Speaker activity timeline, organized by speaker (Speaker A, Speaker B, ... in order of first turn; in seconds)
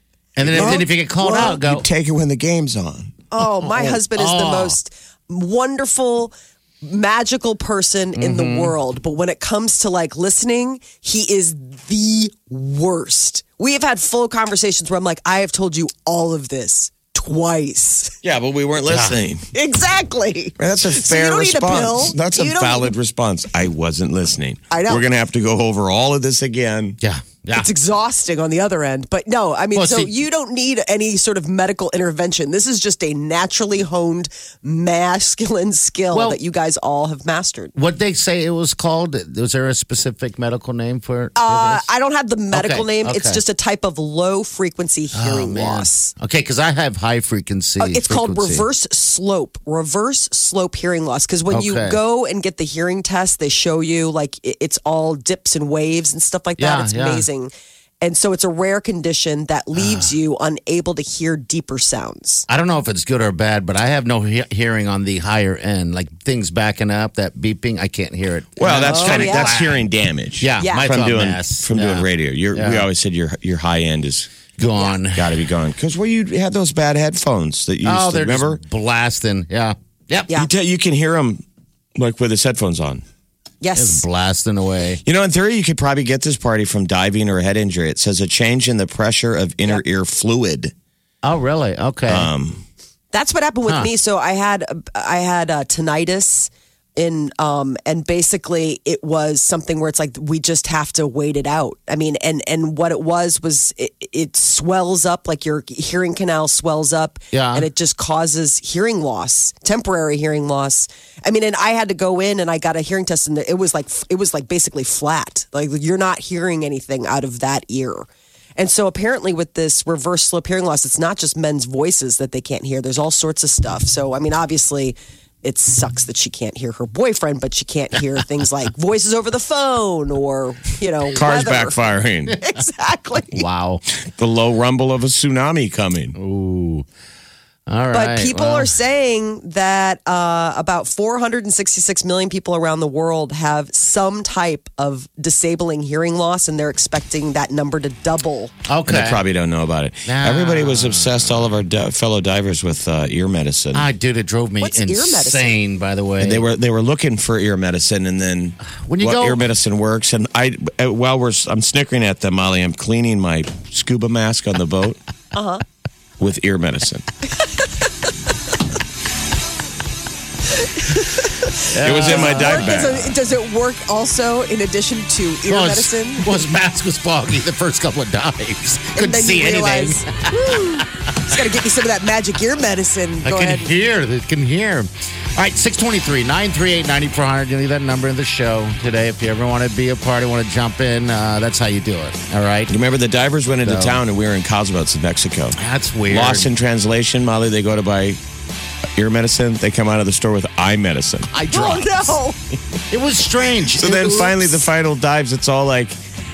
Speaker A: 0.3-1.9, 3.6-4.8, 8.2-8.7, 18.9-19.2, 27.0-27.7, 29.7-30.1, 36.1-36.4, 37.7-41.9, 42.5-43.4, 45.1-48.7, 51.5-52.0, 56.6-57.2, 59.8-60.1, 62.5-69.8, 70.4-72.9, 74.6-75.4, 77.8-80.3, 83.8-85.0, 91.2-92.3, 107.3-107.7, 133.3-133.8, 136.2-136.9, 137.7-138.8, 148.7-149.2, 150.0-151.5, 153.7-156.5, 158.7-159.4, 171.7-173.1, 175.5-181.4, 183.2-192.7, 193.6-194.0, 195.6-196.5, 201.3-202.1, 202.9-204.4
Speaker B: 0.5-3.1, 18.2-19.5, 20.6-27.0, 68.6-74.4, 75.1-78.6, 80.3-81.4, 82.0-83.0, 85.0-90.7, 92.1-92.6, 131.1-132.4, 134.1-136.2, 148.9-153.9, 156.2-165.0, 166.2-167.1, 171.8-173.0, 192.7-195.6, 196.1-198.2, 198.9-201.8, 203.8-206.0
Speaker C: 0.5-1.5, 3.3-18.1, 19.5-22.9, 24.7-25.1, 27.5-37.7, 41.4-46.1, 47.8-62.5, 68.7-69.5, 70.6-70.9, 83.6-84.0, 93.1-118.0, 118.6-131.8, 132.4-133.4, 137.9-148.5, 154.6-155.6, 165.3-165.6, 167.4-167.7, 170.5-176.3, 178.9-183.7, 201.5-202.4, 203.8-204.5